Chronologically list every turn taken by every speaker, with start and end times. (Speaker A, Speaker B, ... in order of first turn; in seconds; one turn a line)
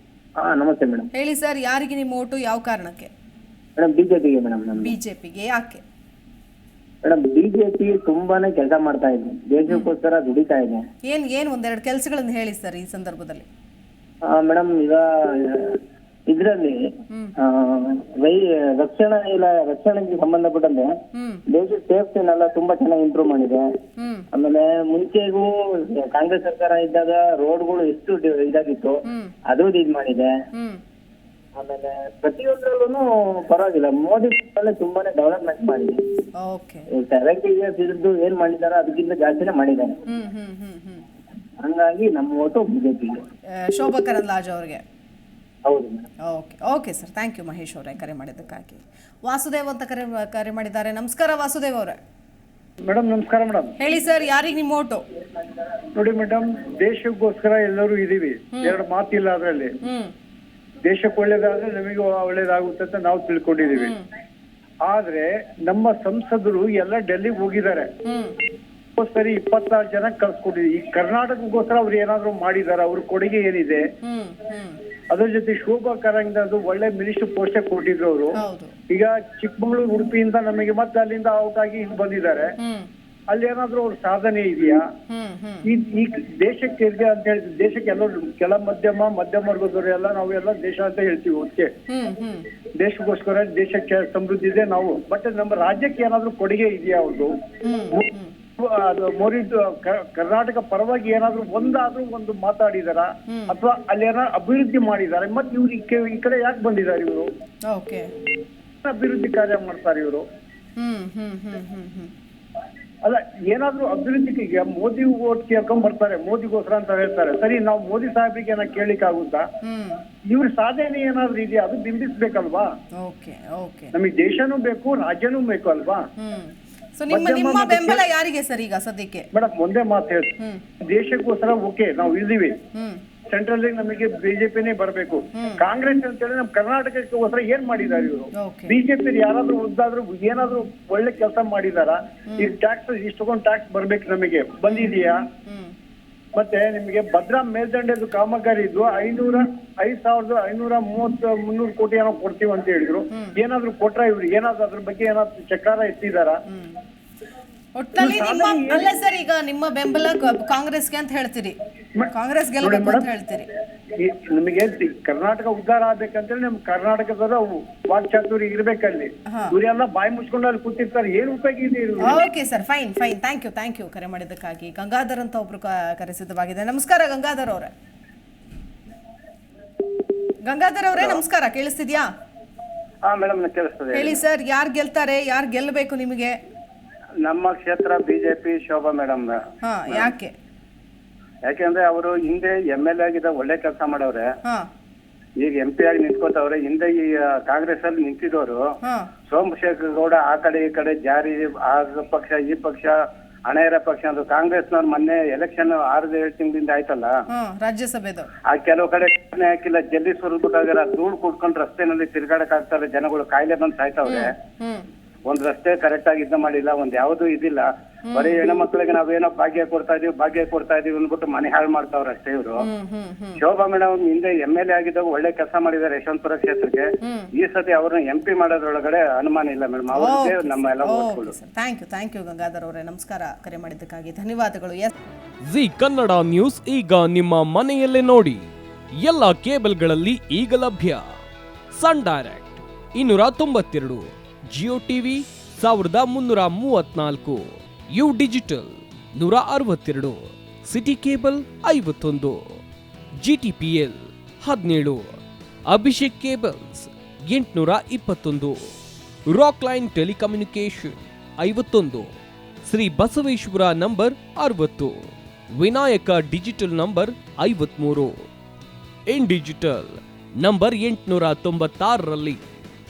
Speaker A: 0.4-1.1
Speaker B: 1.1-3.1
Speaker A: 3.8-4.9
Speaker B: 4.8-5.8
Speaker A: 7.0-10.9
Speaker B: 11.1-13.5
Speaker A: 14.3-16.8
Speaker A: 17.4-20.9
Speaker B: 21.1-21.4
Speaker A: 21.5-23.7
Speaker B: 24.0-24.3
Speaker A: 24.3-30.3
Speaker B: 29.1-29.3
Speaker B: 30.5-30.8
Speaker A: 31.6-36.0
Speaker B: 36.4-36.9
Speaker A: 36.9-40.0
Speaker B: 40.1-41.0
Speaker A: 41.6-43.2
Speaker B: 43.5-44.8
Speaker A: 45.6-46.1
Speaker B: 46.3-52.0
Speaker C: 52.9-53.7
Speaker B: 53.8-55.0
Speaker C: 56.0-59.7
Speaker B: 59.8-60.1
Speaker C: 60.8-63.9
Speaker B: 63.8-64.0
Speaker C: 64.8-67.9
Speaker B: 68.0-68.4
Speaker C: 69.0-73.8
Speaker B: 74.0-74.8
Speaker C: 75.1-78.4
Speaker B: 78.3-78.7
Speaker C: 78.9-82.5
Speaker B: 82.6-82.9
Speaker C: 83.3-84.8
Speaker B: 85.1-85.7
Speaker C: 85.7-91.7
Speaker B: 91.9-92.5
Speaker C: 92.8-97.3
Speaker B: 97.6-98.3
Speaker C: 98.6-107.3
Speaker B: 103.3-103.5
Speaker B: 107.7-108.1
Speaker C: 108.8-110.2
Speaker B: 110.8-112.1
Speaker C: 113.0-119.5
Speaker B: 119.6-120.0
Speaker C: 120.3-122.7
Speaker B: 123.0-123.9
Speaker C: 123.9-126.0
Speaker B: 126.2-129.3
Speaker C: 127.1-128.0
Speaker C: 129.3-130.3
Speaker C: 130.9-132.6
Speaker B: 132.7-133.0
Speaker C: 133.3-145.2
Speaker B: 135.3-135.6
Speaker B: 138.4-138.8
Speaker B: 142.3-142.5
Speaker B: 145.5-145.8
Speaker C: 146.3-156.4
Speaker B: 156.5-156.8
Speaker B: 157.8-161.6
Speaker C: 158.0-158.9
Speaker B: 162.1-163.5
Speaker C: 162.6-163.1
Speaker C: 164.0-172.2
Speaker B: 172.1-177.7
Speaker B: 180.4-182.1
Speaker D: 180.9-181.2
Speaker D: 183.1-184.2
Speaker B: 183.9-186.4
Speaker D: 187.2-189.4
Speaker B: 189.6-190.3
Speaker D: 191.4-194.3
Speaker D: 195.4-198.6
Speaker B: 198.8-199.1
Speaker D: 199.3-202.9
Speaker D: 203.5-207.1
Speaker B: 207.3-208.3
Speaker D: 208.5-214.3
Speaker B: 214.1-214.8
Speaker D: 215.3-222.6
Speaker B: 218.1-218.4
Speaker B: 222.6-223.4
Speaker D: 223.4-226.9
Speaker B: 227.0-227.3
Speaker D: 227.4-231.3
Speaker B: 229.9-234.9
Speaker E: 235.5-238.5
Speaker E: 239.0-241.0
Speaker E: 241.7-252.4
Speaker E: 253.2-255.2
Speaker E: 255.7-258.7
Speaker E: 259.3-262.1
Speaker E: 262.6-268.1
Speaker E: 269.1-272.4